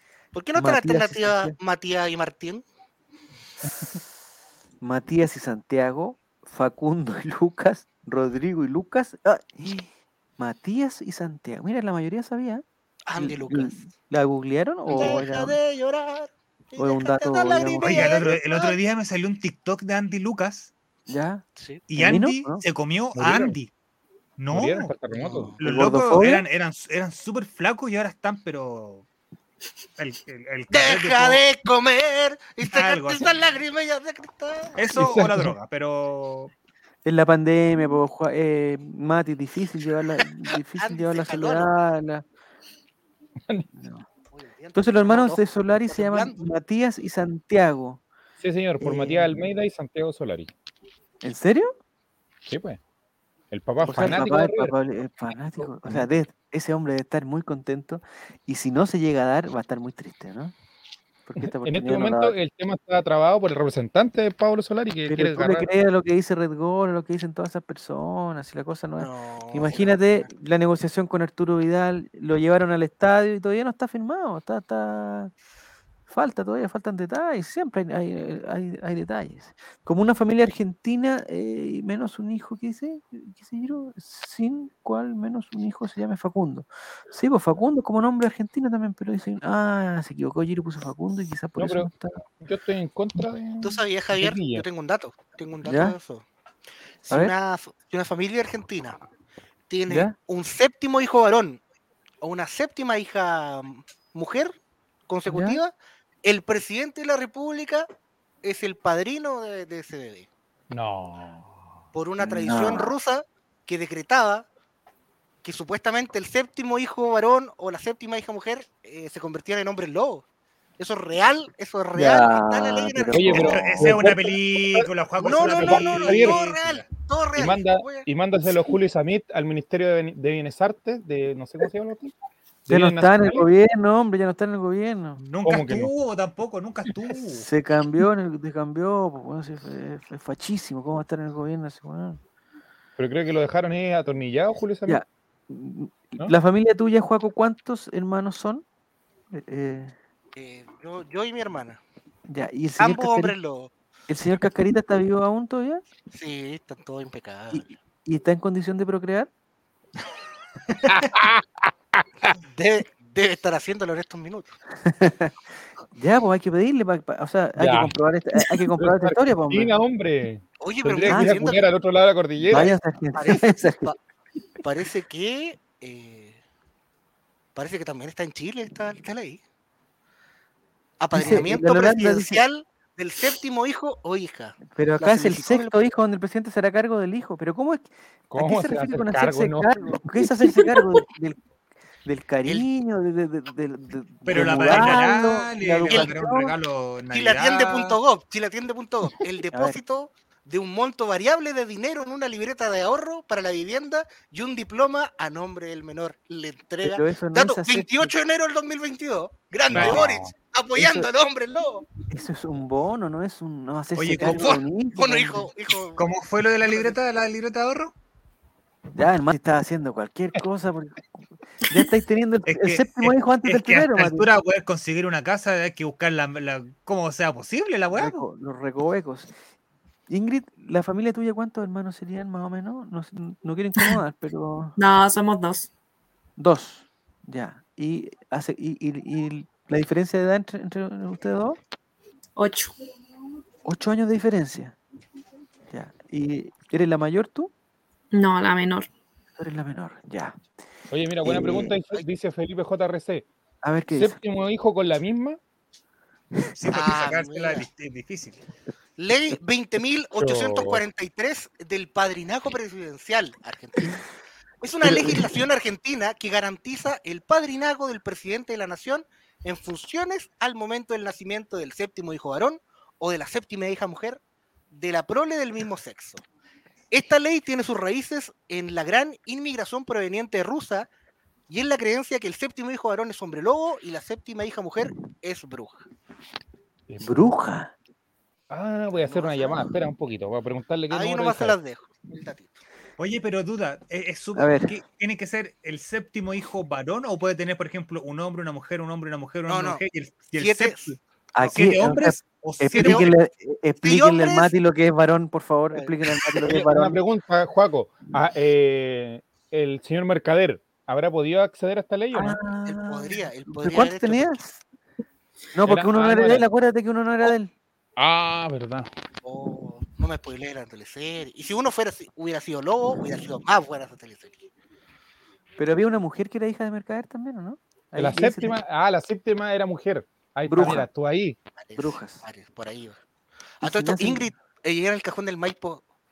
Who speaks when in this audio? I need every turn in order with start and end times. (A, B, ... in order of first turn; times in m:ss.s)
0:00.3-0:02.6 A
0:00.6-0:01.6 B
0:04.8-0:12.6 B
0:13.1-0:13.8 A
0:13.2-0:15.6 B
0:14.9-0:18.8 A
0:16.8-0:18.1 B
0:17.8-0:20.7 C
0:21.1-0:21.4 B
0:21.6-0:21.8 A
0:21.9-0:23.7 C
0:22.0-0:22.6 B
0:23.2-0:23.6 D
0:24.4-0:24.9 C
0:24.5-0:25.6 D
0:25.1-0:25.6 A
0:25.6-0:29.1 C
0:25.6-0:26.4 B
0:30.0-0:31.5 C
0:30.7-0:34.8 A
0:32.6-0:33.3 C
0:34.8-0:36.5 C
0:34.9-0:35.6 D
0:37.0-0:42.2 B
0:40.8-0:41.7 A
0:43.7-0:44.1 B
0:44.3-0:46.4 A
0:44.8-0:48.0 B
0:48.4-0:50.5 D
0:48.8-0:49.4 B
0:51.2-0:51.7 B
0:52.5-0:52.8 D
0:53.5-0:54.7 D
0:53.8-0:54.2 A
0:53.9-1:00.5 B
1:01.3-1:02.4 B
1:01.4-1:05.7 D
1:05.1-1:15.3 B
1:09.0-1:10.3 A
1:16.1-1:32.2 B
1:31.6-1:34.6 D
1:33.6-1:36.2 A
1:35.6-1:36.0 B
1:37.0-1:39.0 A
1:39.7-1:41.6 A
1:39.9-1:40.2 B
1:42.2-1:44.6 A
1:45.1-1:47.9 A
1:45.3-1:45.6 B
1:48.4-1:50.3 A
1:50.7-1:51.5 D
1:51.9-1:54.5 A
1:52.2-1:52.9 B
1:55.4-2:00.2 A
2:00.8-2:03.8 A
2:02.0-2:04.3 B
2:03.1-2:04.2 D
2:03.3-2:06.9 C
2:04.7-2:06.4 D
2:05.2-2:08.1 A
2:07.4-2:12.1 D
2:12.7-2:13.5 D
2:12.7-2:15.2 B
2:15.2-2:17.5 C
2:15.4-2:15.9 D
2:17.3-2:22.2 B
2:23.0-2:25.0 D
2:24.9-2:28.6 B
2:29.3-2:30.0 B
2:30.4-2:31.8 A
2:32.3-2:33.3 B
2:32.8-2:33.7 A
2:34.1-2:35.8 B
2:36.1-2:37.7 A
2:37.5-2:39.3 B
2:40.7-2:41.0 C
2:40.9-2:42.4 D
2:42.4-2:44.5 A
2:44.8-2:45.3 B
2:45.9-2:49.7 B
2:47.6-2:48.0 D
2:48.7-2:52.7 D
2:50.6-2:51.6 A
2:51.0-2:51.6 B
2:52.4-2:53.9 B
2:52.5-2:54.0 A
2:54.6-2:56.4 A
2:57.6-2:59.4 A
3:01.0-3:05.8 A
3:01.1-3:02.4 B
3:04.7-3:11.4 B
3:08.3-3:09.8 D
3:12.0-3:16.5 B
3:14.2-3:18.0 C
3:14.4-3:15.0 A
3:17.1-3:31.9 A
3:19.5-3:19.8 B
3:26.8-3:28.1 B
3:29.7-3:30.3 D
3:29.7-3:30.2 C
3:30.8-3:31.1 B
3:32.1-3:35.5 B
3:34.0-3:34.6 C
3:34.2-3:36.1 A
3:36.0-3:37.9 C
3:36.7-3:36.9 A
3:39.0-3:44.3 B
3:42.5-3:48.2 C
3:47.9-3:49.3 B
3:50.1-3:54.8 B
3:54.8-3:55.7 E
3:56.4-4:01.6 B
4:02.4-4:02.7 E
4:03.6-4:04.8 B
4:05.7-4:07.5 B
4:08.1-4:08.9 E
4:09.4-4:10.4 B
4:10.9-4:13.3 D
4:11.2-4:11.8 B
4:13.6-4:14.2 B
4:13.9-4:15.4 D
4:16.6-4:18.4 C
4:16.6-4:17.7 A
4:19.0-4:24.0 A
4:20.2-4:20.8 D
4:24.6-4:34.2 A
4:24.8-4:25.2 B
4:34.7-4:36.2 A
4:36.9-4:40.9 A
4:41.5-4:45.8 A
4:46.9-4:47.3 D
4:47.0-4:47.7 B
4:48.5-4:51.6 D
4:48.9-4:49.7 A
4:50.9-4:52.6 A
4:53.0-5:03.1 C
4:54.4-4:54.7 B
4:59.5-4:59.8 A
5:00.4-5:00.9 A
5:01.4-5:07.0 B
5:02.7-5:03.1 A
5:03.8-5:04.6 A
5:06.5-5:12.4 D
5:12.1-5:14.6 B
5:12.7-5:14.4 A
5:15.5-5:17.5 B
5:15.6-5:16.5 D
5:18.0-5:18.9 D
5:19.2-5:24.4 A
5:25.6-5:28.6 B
5:28.0-5:31.4 D
5:30.5-5:30.9 B
5:31.6-5:33.0 A
5:31.8-5:32.2 B
5:33.6-5:35.8 A
5:33.6-5:34.3 B